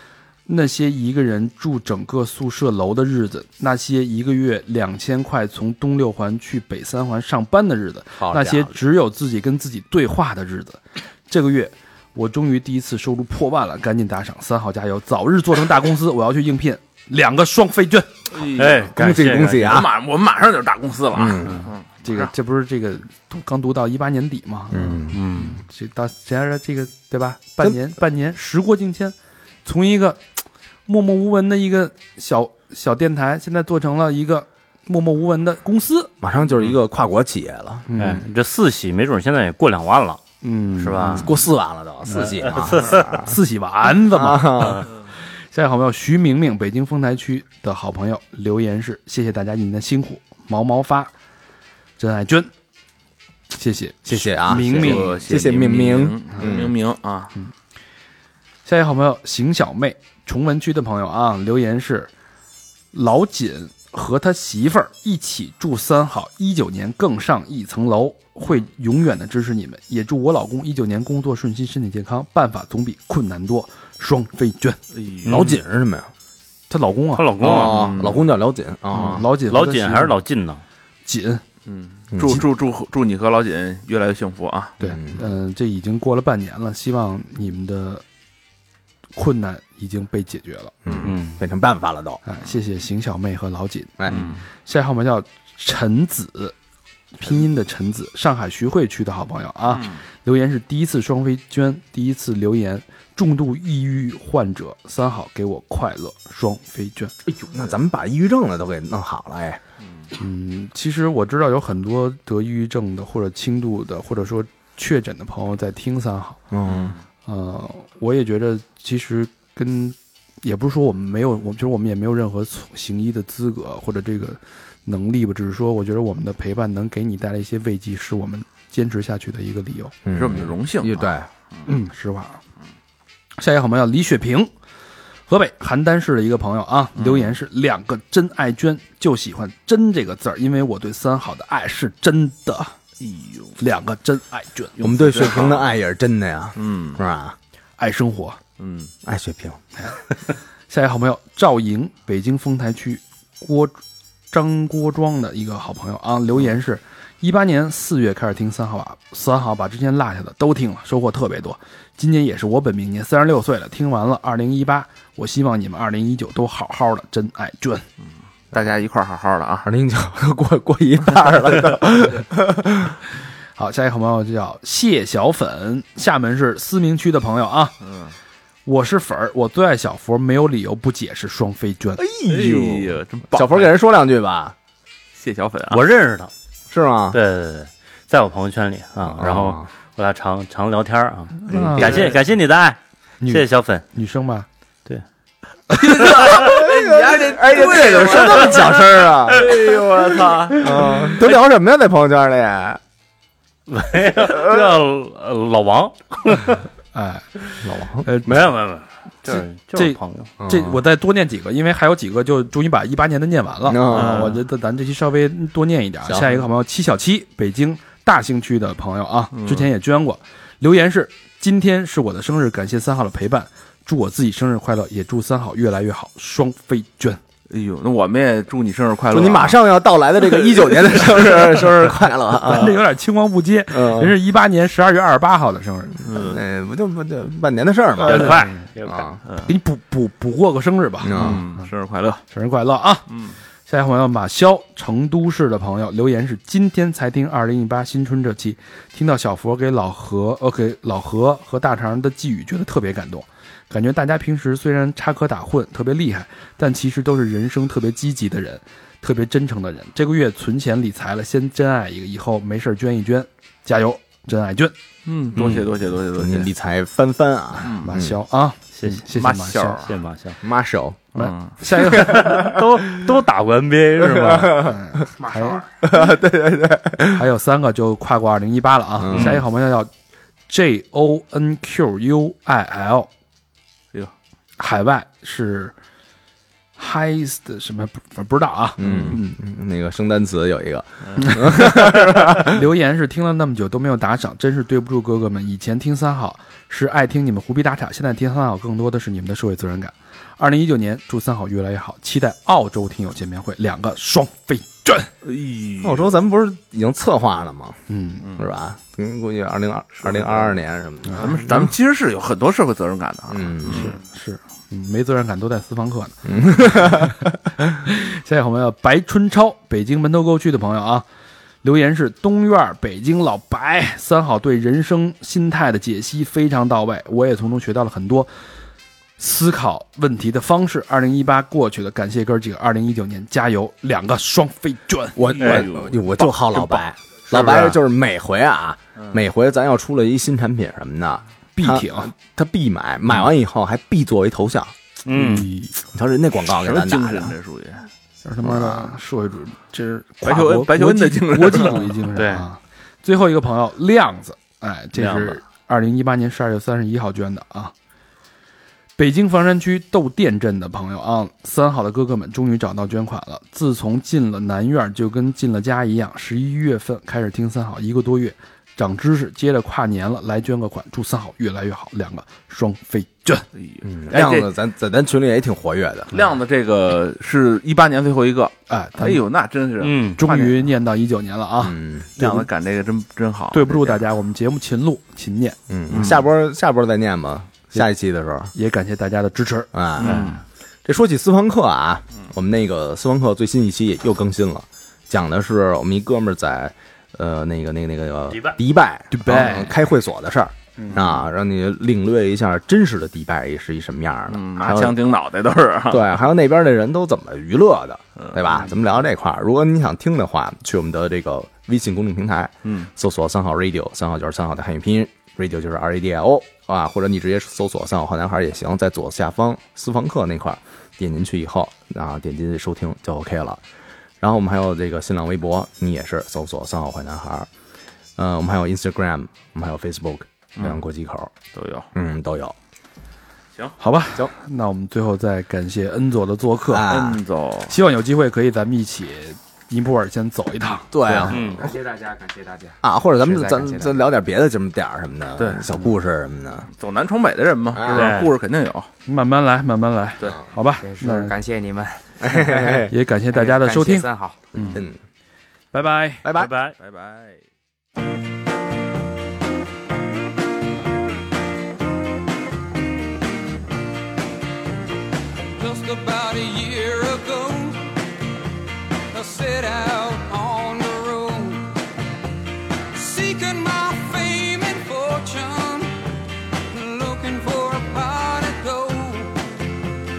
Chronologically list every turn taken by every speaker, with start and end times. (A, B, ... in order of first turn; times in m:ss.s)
0:00.4-0:18.3 A
0:08.2-0:08.8 B
0:18.3-0:22.3 C
0:18.4-0:19.8 D
0:18.9-0:20.0 B
0:21.1-0:21.7 B
0:22.0-0:30.2 A
0:24.7-0:25.2 B
0:25.1-0:25.6 D
0:30.9-0:36.1 A
0:36.2-0:37.9 B
0:37.9-0:38.2 A
0:38.0-0:40.2 D
0:40.4-0:41.3 A
0:40.8-0:41.3 D
0:41.1-0:43.4 B
0:42.1-0:51.1 A
0:42.4-0:43.1 D
0:44.0-0:44.9 B
0:52.0-0:52.5 A
0:53.5-0:55.2 A
0:54.1-0:56.7 B
0:54.5-0:57.3 C
0:58.6-1:02.1 A
1:02.9-1:14.8 A
1:14.9-1:15.5 C
1:15.2-1:16.1 B
1:15.3-1:15.6 D
1:16.7-1:17.7 A
1:17.1-1:18.1 D
1:17.4-1:19.3 B
1:17.6-1:18.2 C
1:19.0-1:20.2 A
1:19.5-1:20.6 D
1:21.1-1:21.4 A
1:21.7-1:24.7 C
1:22.1-1:22.4 B
1:24.8-1:28.0 A
1:24.8-1:25.2 B
1:29.1-1:31.1 A
1:30.8-1:32.2 B
1:31.1-1:31.4 D
1:32.2-1:36.6 A
1:34.0-1:34.3 B
1:34.1-1:34.4 C
1:37.2-1:47.1 A
1:39.7-1:40.0 C
1:47.3-1:49.6 B
1:50.2-1:56.4 A
1:56.5-1:56.9 B
1:56.7-1:57.0 C
1:57.2-2:10.0 A
2:10.1-2:11.3 B
2:10.1-2:11.0 C
2:11.7-2:12.4 A
2:13.4-2:14.5 A
2:15.3-2:22.8 A
2:17.0-2:17.3 C
2:23.0-2:23.6 C
2:23.6-2:24.8 A
2:24.8-2:25.7 C
2:24.8-2:27.4 B
2:26.6-2:27.0 C
2:27.8-2:28.4 A
2:28.6-2:28.9 C
2:29.0-2:29.6 B
2:30.7-2:47.9 A
2:48.5-2:49.7 C
2:49.6-2:53.0 B
2:53.6-2:57.8 A
2:57.9-2:58.1 C
2:58.7-3:02.0 A
3:02.0-3:04.6 B
3:02.3-3:03.7 C
3:05.1-3:05.8 C
3:05.7-3:06.3 D
3:06.7-3:07.2 B
3:07.1-3:13.8 D
3:09.2-3:09.6 B
3:11.5-3:12.1 A
3:11.8-3:12.1 C
3:13.2-3:14.5 A
3:15.7-3:18.8 C
3:16.1-3:22.8 B
3:19.3-3:21.1 C
3:23.7-3:26.6 D
3:24.5-3:24.7 B
3:26.9-3:28.4 A
3:27.6-3:28.1 B
3:28.2-3:30.3 D
3:29.3-3:47.2 A
3:30.4-3:30.8 B
3:33.6-3:34.3 B
3:33.9-3:34.3 C
3:36.1-3:36.4 B
3:39.4-3:39.7 C
3:47.5-3:49.6 C
3:49.1-3:52.8 B
3:50.6-3:51.7 C
3:52.4-3:56.0 A
3:53.7-3:54.2 B
3:56.0-3:56.4 C
3:56.1-3:59.2 B
3:58.0-3:59.2 D
3:58.1-3:58.6 A
3:59.4-4:01.6 A
4:01.0-4:01.4 B
4:01.1-4:02.2 C
4:02.3-4:03.1 A
4:03.7-4:24.7 A
4:25.0-4:26.5 C
4:25.4-4:25.7 A
4:26.1-4:28.2 B
4:27.6-4:27.9 C
4:27.8-4:29.9 A
4:28.8-4:29.1 D
4:29.1-4:29.9 C
4:29.8-4:30.4 D
4:30.4-4:31.1 B
4:31.2-4:32.5 A
4:31.2-4:31.6 C
4:31.7-4:32.9 B
4:31.8-4:34.7 D
4:34.0-4:35.0 B
4:34.6-4:35.6 A
4:35.2-4:35.6 E
4:35.8-4:37.3 B
4:37.1-4:39.9 A
4:39.0-4:39.4 B
4:39.1-4:39.4 D
4:40.5-4:43.1 A
4:44.6-4:45.7 A
4:46.8-4:49.4 A
4:48.8-4:52.7 B
4:48.8-4:49.2 C
4:51.4-5:05.1 A
5:05.2-5:06.1 C
5:05.8-5:07.8 B
5:07.9-5:08.3 A
5:08.4-5:11.4 B
5:10.0-5:10.5 C
5:11.1-5:14.0 C
5:13.3-5:13.9 B
5:13.7-5:21.0 A
5:16.3-5:17.3 B
5:21.6-5:28.3 A
5:29.2-5:35.3 A
5:35.2-5:44.7 B
5:35.4-5:37.6 C
5:35.4-5:35.7 D
5:41.6-5:42.1 A
5:45.1-5:45.5 D
5:45.1-5:45.8 A
5:45.9-5:47.3 B
5:46.5-5:47.9 C
5:48.2-5:57.7 A
5:48.4-5:48.9 B
5:50.2-5:52.0 C
5:52.1-5:52.4 D
5:55.0-5:55.4 C
5:59.0-6:13.4 A
6:13.6-6:14.5 C
6:13.8-6:16.1 B
6:16.1-6:20.6 C
6:18.7-6:19.2 A
6:19.8-6:20.2 D
6:20.2-6:22.5 A
6:21.6-6:22.1 B
6:22.2-6:24.0 C
6:23.5-6:26.1 A
6:25.7-6:28.5 B
6:25.9-6:26.2 C
6:28.5-6:29.7 A
6:29.7-6:30.2 B
6:30.0-6:30.4 C
6:30.0-6:30.4 D
6:30.8-6:45.0 B
6:38.3-6:38.6 D
6:39.1-6:39.7 A
6:40.8-6:41.0 A
6:44.3-6:46.1 C
6:45.9-7:03.6 B
6:48.2-6:48.7 C
7:04.2-7:07.5 B
7:08.2-7:11.3 B
7:11.5-7:11.9 C
7:11.9-7:12.6 B
7:13.8-7:17.0 A
7:16.7-7:17.2 B
7:16.9-7:17.7 C
7:17.7-7:20.9 A
7:20.9-7:21.7 B
7:21.3-7:21.6 D
7:21.6-7:24.0 E
7:22.8-7:26.7 B
7:25.4-7:25.6 C
7:26.7-7:28.9 C
7:27.7-7:28.1 B
7:27.9-7:28.3 D
7:29.1-7:31.3 A
7:30.8-7:34.4 E
7:32.2-7:32.9 B
7:32.7-7:34.8 A
7:34.6-7:35.0 B
7:35.7-7:36.3 A
7:36.2-7:36.5 B
7:36.4-7:36.7 D
7:36.8-7:37.4 C
7:45.6-7:48.0 F
7:49.1-7:51.8 F
7:52.9-7:56.0 F
7:56.7-7:59.4 F